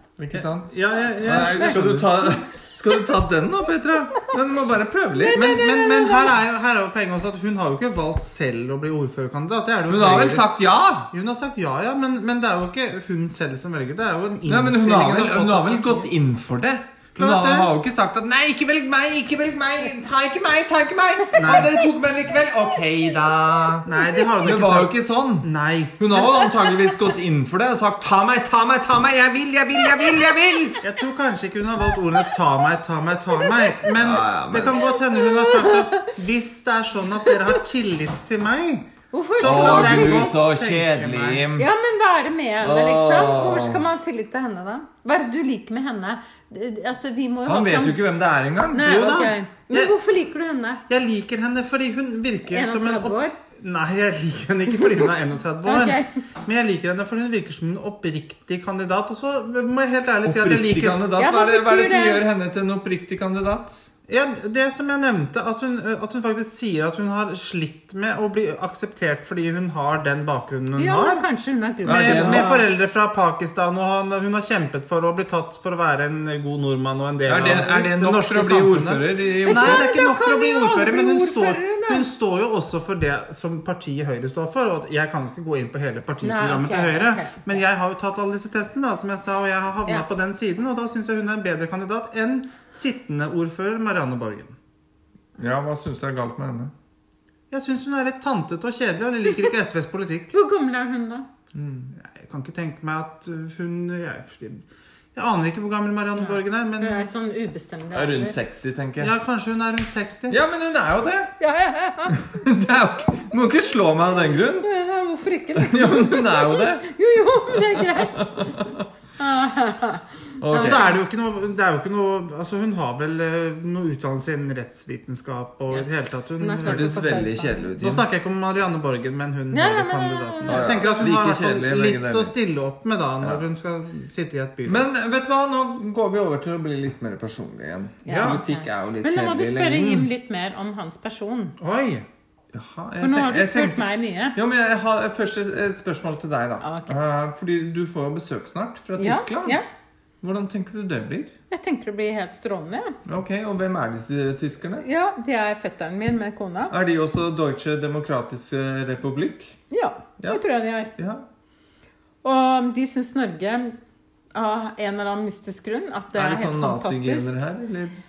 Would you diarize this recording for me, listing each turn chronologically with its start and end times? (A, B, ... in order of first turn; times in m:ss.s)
0:00.2-0:02.2 A
0:00.2-0:05.7 B
0:01.2-0:01.8 C
0:05.2-0:06.4 C
0:05.3-0:10.5 A
0:09.9-0:11.1 B
0:11.1-0:16.1 A
0:14.5-0:30.8 B
0:17.2-0:17.7 A
0:21.4-0:21.8 A
0:23.9-0:26.4 A
0:30.8-0:41.4 A
0:33.9-0:34.8 B
0:34.8-0:36.1 C
0:39.1-0:40.4 C
0:39.4-0:41.7 B
0:41.6-0:48.0 C
0:42.6-0:43.8 B
0:47.4-0:49.0 B
0:48.7-0:50.8 C
0:48.8-0:49.9 A
0:50.9-1:01.1 A
0:52.5-0:53.4 C
0:55.6-0:56.2 C
1:00.2-1:03.8 B
1:01.2-1:02.2 C
1:04.1-1:11.2 A
1:10.8-1:12.7 C
1:11.8-1:12.5 B
1:11.9-1:34.6 A
1:17.2-1:19.9 B
1:19.5-1:22.1 C
1:26.2-1:27.5 C
1:35.4-1:36.7 B
1:37.5-1:40.3 A
1:40.3-1:41.3 C
1:41.5-1:41.9 B
1:41.9-1:47.1 A
1:46.2-1:48.3 C
1:47.9-1:49.1 B
1:49.0-1:50.4 A
1:50.3-1:51.3 B
1:51.4-1:52.2 C
1:52.1-1:54.7 B
1:54.6-2:00.9 C
1:55.5-1:56.8 B
1:57.5-1:58.8 B
2:00.4-2:00.9 B
2:00.5-2:07.2 A
2:05.7-2:07.7 C
2:06.6-2:08.0 B
2:07.8-2:14.8 A
2:09.5-2:11.1 C
2:10.4-2:12.3 B
2:14.6-2:20.1 B
2:18.0-2:21.5 C
2:18.1-2:18.4 A
2:21.6-2:22.0 A
2:22.5-2:29.6 B
2:23.0-2:24.4 C
2:26.6-2:27.0 C
2:29.0-2:29.6 C
2:30.2-2:31.3 B
2:31.5-2:33.0 C
2:33.0-2:34.8 B
2:34.8-2:36.7 C
2:36.7-2:39.6 B
2:39.7-2:41.0 C
2:41.0-2:41.2 B
2:42.2-2:43.8 C
2:44.3-2:47.4 C
2:46.1-2:48.0 B